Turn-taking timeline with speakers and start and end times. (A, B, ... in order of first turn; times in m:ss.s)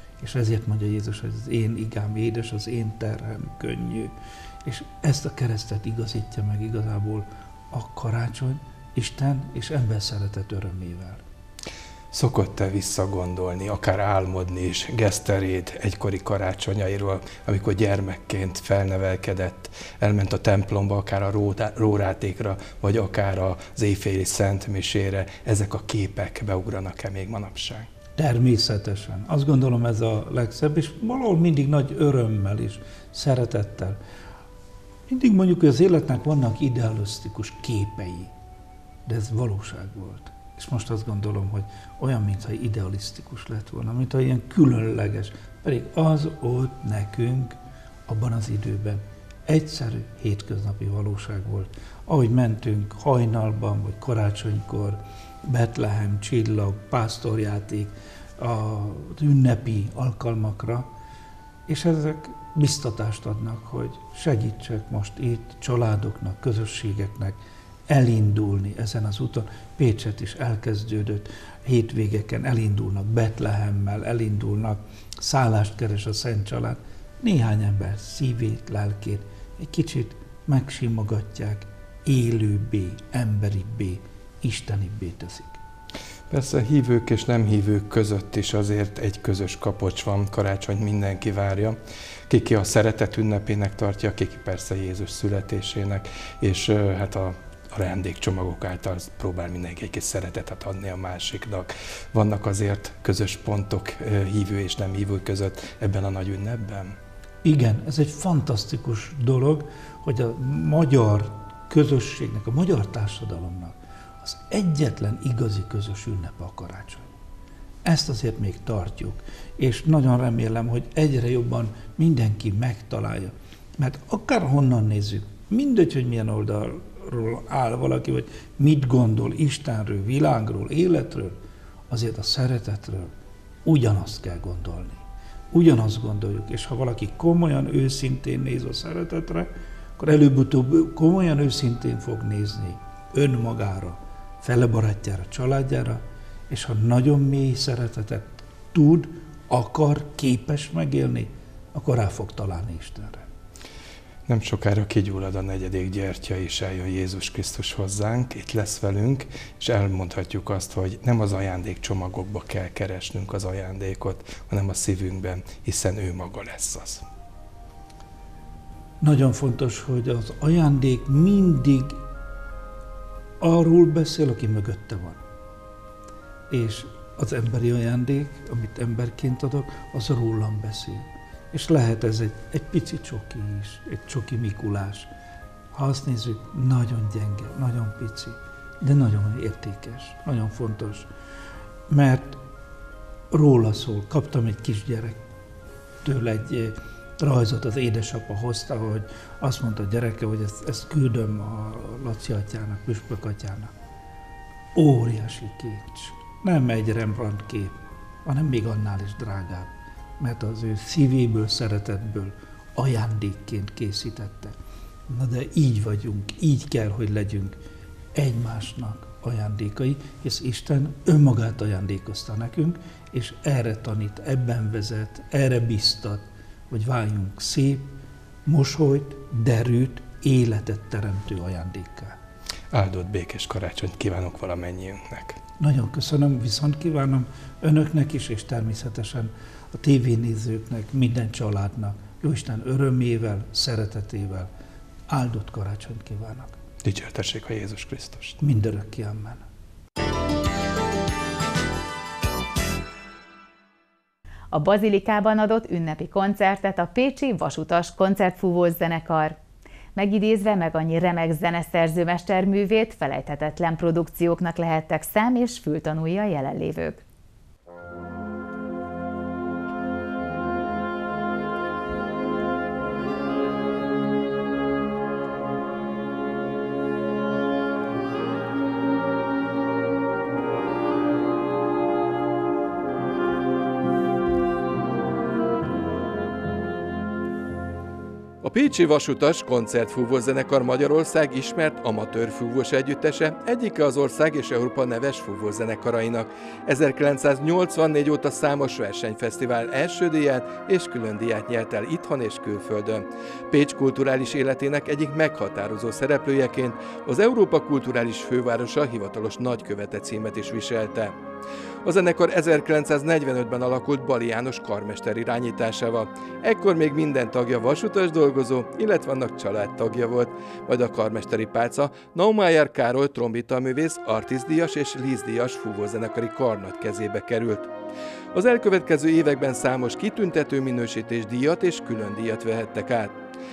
0:00.2-0:04.1 A
0:04.6-0:11.2 A
0:12.1-0:27.9 B
0:28.2-0:34.0 A
0:35.1-0:38.3 A
0:39.1-1:00.9 A
1:01.7-1:07.4 A
1:07.9-1:25.6 A
1:26.3-1:47.0 B
1:47.4-1:57.1 A
1:57.8-2:13.1 A
2:13.6-2:33.2 A
2:34.3-2:47.0 B
2:49.0-2:52.0 A
2:53.4-2:55.2 A
2:56.5-3:05.1 A
3:05.7-3:11.1 A
3:11.9-3:12.4 A
3:13.3-3:15.2 A
3:16.0-3:23.7 A
3:24.8-3:34.6 A
3:35.1-3:37.6 A
3:38.1-3:52.2 A
3:52.7-3:55.4 B
3:55.6-4:04.5 A
4:05.1-4:06.6 A
4:06.8-4:08.4 B
4:08.4-4:09.4 A
4:14.5-4:19.4 C
4:20.0-4:27.0 C
4:48.4-5:11.2 B
5:11.8-5:27.7 B
5:28.3-5:33.2 B